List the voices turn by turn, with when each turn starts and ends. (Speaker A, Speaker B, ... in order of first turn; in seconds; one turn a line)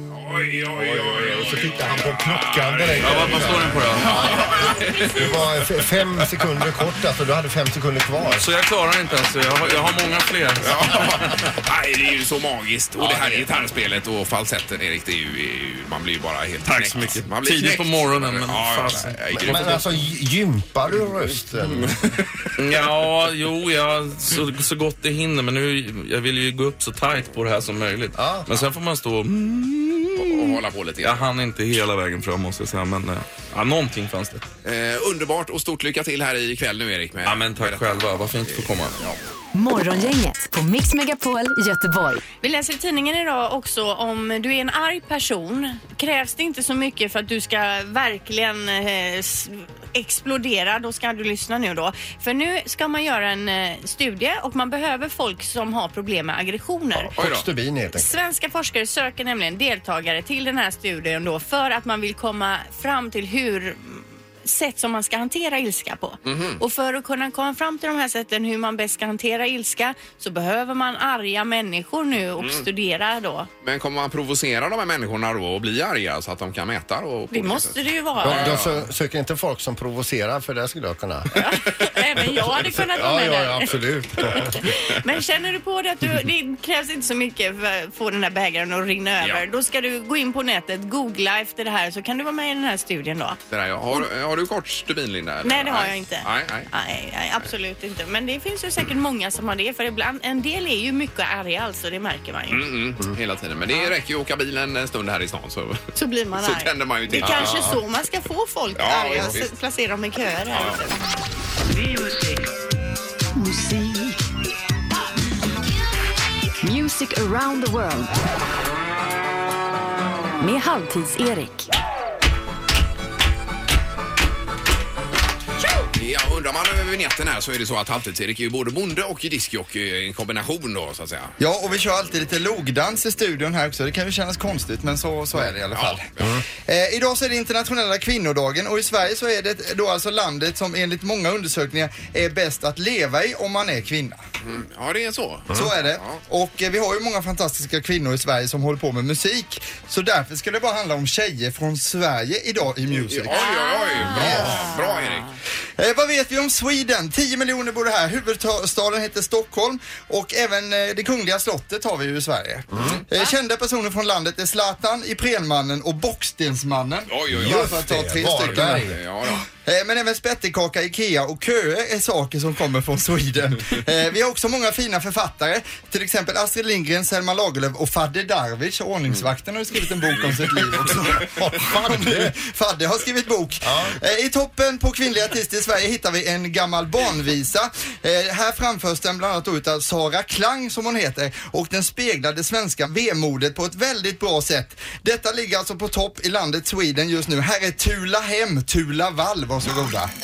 Speaker A: 0.1-5.7
Speaker B: 0.7-8.5
Speaker C: 3.0-4.4
Speaker C: 8.2-11.3
Speaker A: 9.6-9.9
Speaker A: 10.6-19.9
Speaker B: 13.0-13.4
Speaker C: 16.6-19.8
Speaker B: 19.3-22.1
Speaker A: 21.6-22.5
Speaker C: 22.6-34.4
Speaker B: 28.1-28.5
Speaker A: 30.2-31.3
Speaker A: 34.6-39.2
Speaker C: 37.2-39.0
Speaker D: 39.5-42.2
Speaker E: 42.4-57.1
Speaker B: 56.9-58.1
Speaker A: 57.2-57.5
Speaker E: 57.9-73.5
Speaker A: 66.2-66.6
Speaker A: 72.4-72.6
Speaker A: 73.6-78.8
Speaker E: 77.3-78.6
Speaker B: 78.2-81.5
Speaker E: 81.4-93.4
Speaker B: 82.5-84.6
Speaker A: 93.5-96.7
Speaker E: 95.4-102.7
Speaker A: 102.5-105.8
Speaker E: 106.0-110.9
Speaker A: 106.3-107.7
Speaker B: 107.2-107.7
Speaker A: 108.8-109.5
Speaker A: 110.5-110.8
Speaker D: 113.3-114.2
Speaker D: 116.6-118.1
Speaker D: 120.4-121.7
Speaker A: 126.0-131.3
Speaker F: 131.4-136.1
Speaker A: 135.7-136.3
Speaker F: 136.6-144.2
Speaker A: 144.4-146.2
Speaker F: 145.5-153.4
Speaker A: 152.9-155.2
Speaker E: 153.3-155.3
Speaker F: 154.2-154.5
Speaker F: 155.8-168.8
Speaker A: 162.8-163.0
Speaker A: 167.1-169.4
Speaker B: 167.3-169.0
Speaker F: 169.6-200.1
Speaker B: 180.8-182.3
Speaker B: 183.6-184.0